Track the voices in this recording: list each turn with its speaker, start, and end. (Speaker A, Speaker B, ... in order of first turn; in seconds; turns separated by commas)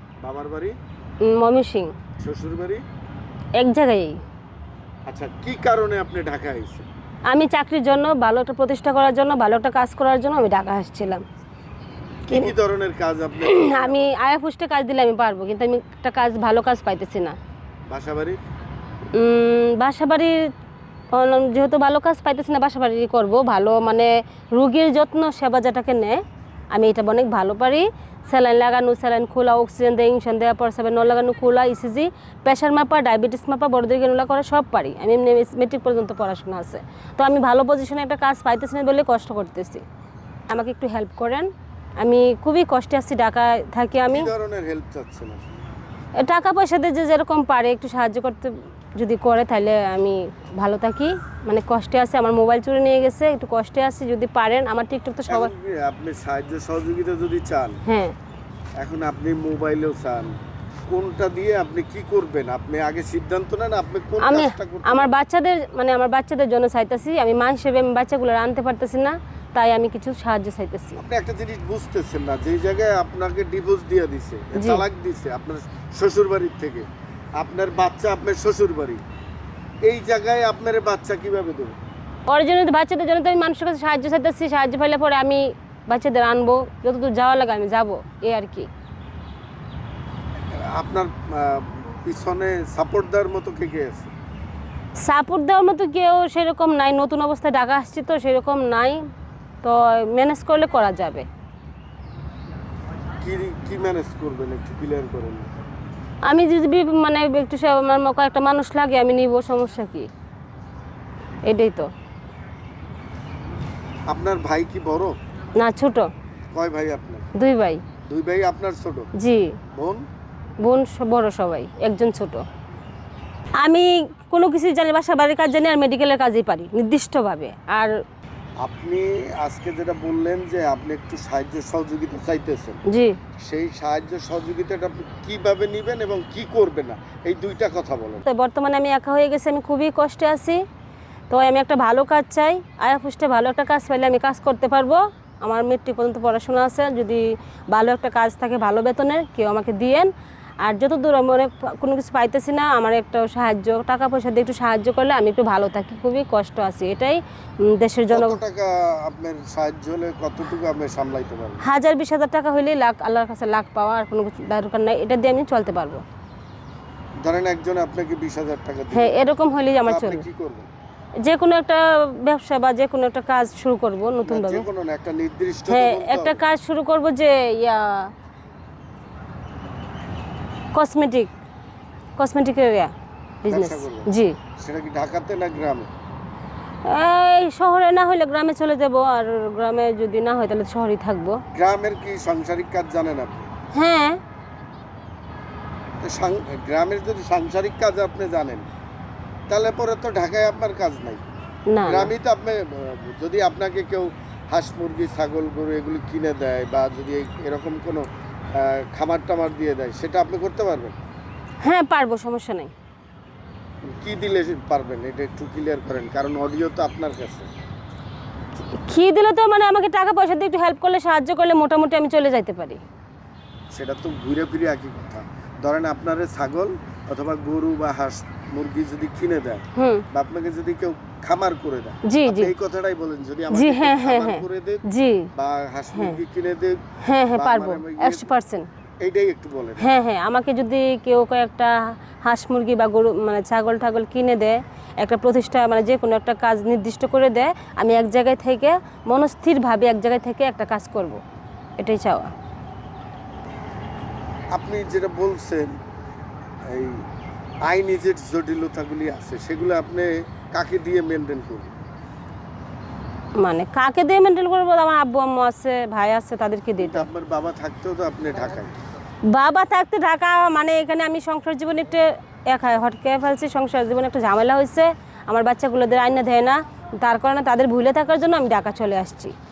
Speaker A: 0.2-0.8, Speaker B: 1.2-1.9, Speaker A: 2.2-2.8, Speaker B: 3.6-4.2, Speaker A: 5.1-6.8, Speaker B: 7.3-11.2, Speaker A: 12.3-14.1, Speaker B: 13.4-17.4, Speaker A: 17.9-18.4, Speaker B: 19.1-20.4, Speaker B: 21.1-26.2, Speaker B: 26.7-39.8, Speaker B: 40.5-44.3, Speaker A: 44.1-45.4, Speaker B: 46.2-55.5, Speaker A: 55.3-57.8, Speaker B: 57.9-58.1, Speaker A: 58.8-60.3, Speaker A: 60.9-65.1, Speaker B: 64.2-71.0, Speaker A: 71.0-76.8, Speaker B: 74.5-74.8, Speaker A: 77.4-79.0, Speaker A: 79.8-81.8, Speaker B: 82.3-88.7, Speaker A: 90.5-94.1, Speaker B: 95.0-99.0, Speaker B: 99.6-101.2, Speaker A: 103.2-105.5, Speaker B: 106.2-110.1, Speaker B: 111.4-111.9, Speaker A: 114.1-115.1, Speaker B: 115.5-116.1, Speaker A: 116.5-117.3, Speaker B: 117.3-117.8, Speaker A: 118.1-119.1, Speaker B: 119.2-119.6, Speaker A: 119.7-120.0, Speaker B: 120.6-122.4, Speaker B: 123.6-127.9, Speaker A: 128.6-132.8, Speaker B: 132.9-133.2, Speaker A: 133.4-138.2, Speaker B: 138.2-140.6, Speaker B: 141.3-150.1, Speaker B: 150.6-158.4, Speaker A: 158.1-161.6, Speaker B: 161.6-166.0, Speaker A: 167.2-169.2, Speaker B: 168.9-170.2, Speaker A: 169.8-170.7, Speaker B: 171.2-174.7, Speaker A: 174.2-176.4, Speaker B: 175.7-178.1, Speaker B: 180.7-181.3, Speaker B: 182.2-182.9, Speaker B: 183.4-184.3, Speaker A: 183.5-185.9, Speaker B: 186.8-191.4, Speaker A: 191.5-193.5, Speaker B: 193.7-194.2, Speaker A: 196.0-198.7, Speaker A: 199.5-201.2, Speaker B: 201.7-202.1, Speaker A: 201.9-210.9, Speaker B: 211.6-212.7, Speaker A: 213.9-217.5, Speaker B: 218.7-222.8, Speaker A: 223.7-236.8, Speaker B: 229.8-230.0, Speaker B: 232.1-232.5, Speaker B: 233.5-235.3, Speaker B: 237.0-238.7, Speaker A: 237.3-238.3, Speaker A: 239.0-239.9, Speaker B: 239.8-251.2, Speaker B: 251.8-252.3, Speaker A: 254.5-255.7, Speaker A: 256.7-257.0, Speaker A: 257.6-261.7, Speaker B: 263.4-267.1, Speaker A: 266.8-268.7, Speaker B: 269.3-279.3